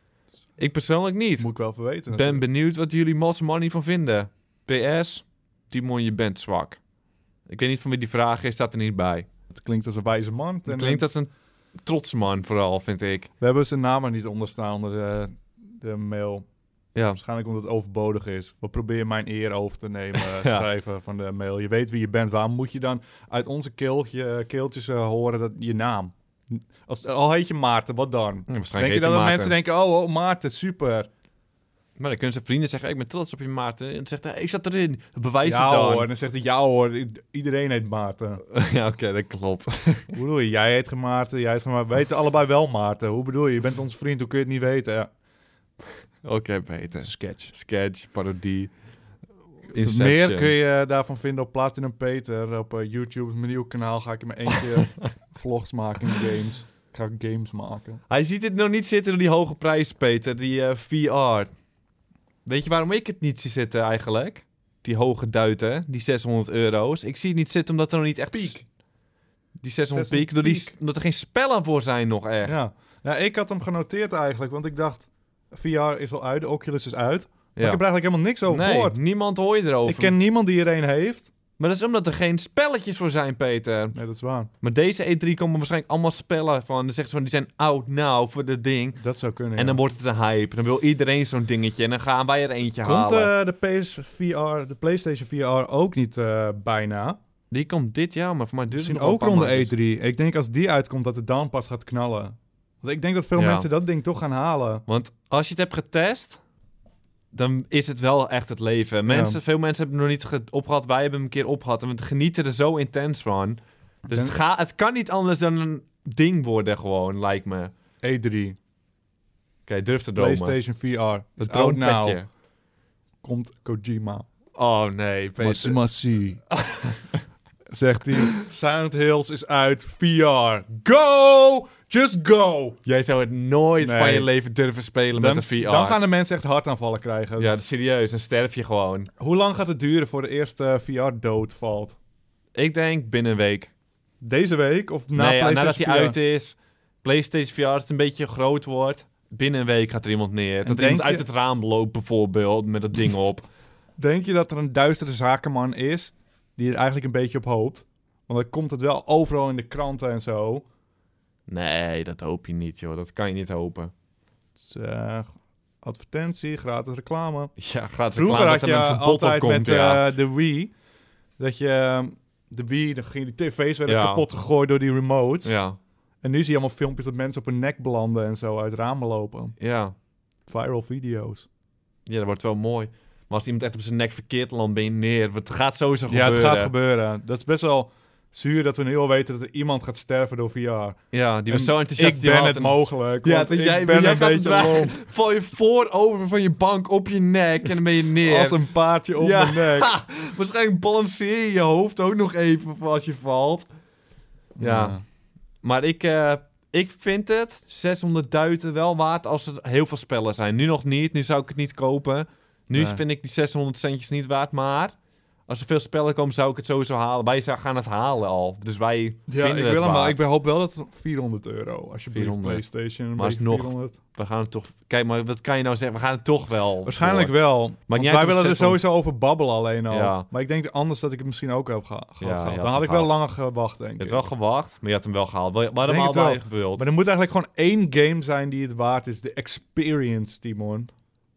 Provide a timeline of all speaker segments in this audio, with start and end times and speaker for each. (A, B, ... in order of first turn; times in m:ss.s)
0:00.6-0:01.5 A
0:01.4-0:02.4 B
0:02.1-0:06.8 A
0:07.5-0:09.3 A
0:09.5-0:11.0 B
0:10.6-0:13.3 A
0:13.4-0:16.4 B
0:17.1-0:31.1 B
0:20.1-0:20.6 A
0:28.5-0:29.5 A
0:32.0-0:36.1 A
0:35.4-0:38.4 B
0:38.5-0:40.2 A
0:40.1-0:45.1 B
0:46.2-0:48.7 A
0:47.0-0:47.5 B
0:49.7-0:50.5 A
0:49.7-0:58.0 B
0:58.1-1:01.5 A
1:02.4-1:08.6 A
1:08.3-1:08.6 B
1:09.6-1:12.6 A
1:09.9-1:10.7 B
1:12.4-1:19.0 B
1:17.6-1:17.8 A
1:18.5-1:20.1 A
1:19.8-1:21.3 B
1:21.6-1:24.0 A
1:23.9-1:24.5 B
1:24.6-1:29.0 A
1:29.0-1:29.8 B
1:29.6-1:33.3 A
1:32.8-1:37.2 B
1:37.5-1:39.7 A
1:38.7-1:44.8 B
1:43.3-1:43.7 A
1:44.9-1:46.4 A
1:47.3-1:57.7 A
1:49.1-1:49.4 B
1:58.0-1:58.6 B
1:59.6-2:00.6 A
2:00.2-2:02.2 B
2:01.4-2:02.3 A
2:03.2-2:04.2 B
2:04.5-2:05.8 A
2:05.4-2:06.4 B
2:06.5-2:07.0 A
2:07.7-2:12.8 B
2:12.8-2:16.0 A
2:13.8-2:14.3 B
2:15.1-2:17.5 B
2:17.4-2:19.1 A
2:19.2-2:22.0 B
2:22.5-2:23.7 A
2:24.2-2:26.2 B
2:25.2-2:33.4 A
2:30.6-2:31.2 B
2:34.0-2:40.6 B
2:41.5-2:43.9 A
2:44.6-2:45.3 B
2:45.8-2:47.5 B
2:47.6-2:50.1 A
2:48.1-2:50.7 B
2:51.4-2:55.5 B
2:53.8-2:54.2 A
2:55.4-2:55.8 A
2:56.2-2:59.5 B
2:59.6-2:59.9 A
3:00.4-3:01.5 B
3:02.0-3:06.7 A
3:06.1-3:15.0 B
3:11.1-3:18.6 A
3:18.2-3:19.9 B
3:19.2-3:23.7 A
3:24.6-3:25.0 B
3:24.6-3:25.0 A
3:25.6-3:34.9 A
3:32.7-3:33.0 B
3:35.5-3:40.2 A
3:39.3-3:44.0 B
3:42.1-3:47.3 A
3:46.8-3:54.3 B
3:47.9-3:48.8 A
3:49.9-3:50.3 A
3:52.2-3:53.1 A
3:54.0-3:56.8 A
3:55.8-4:00.9 B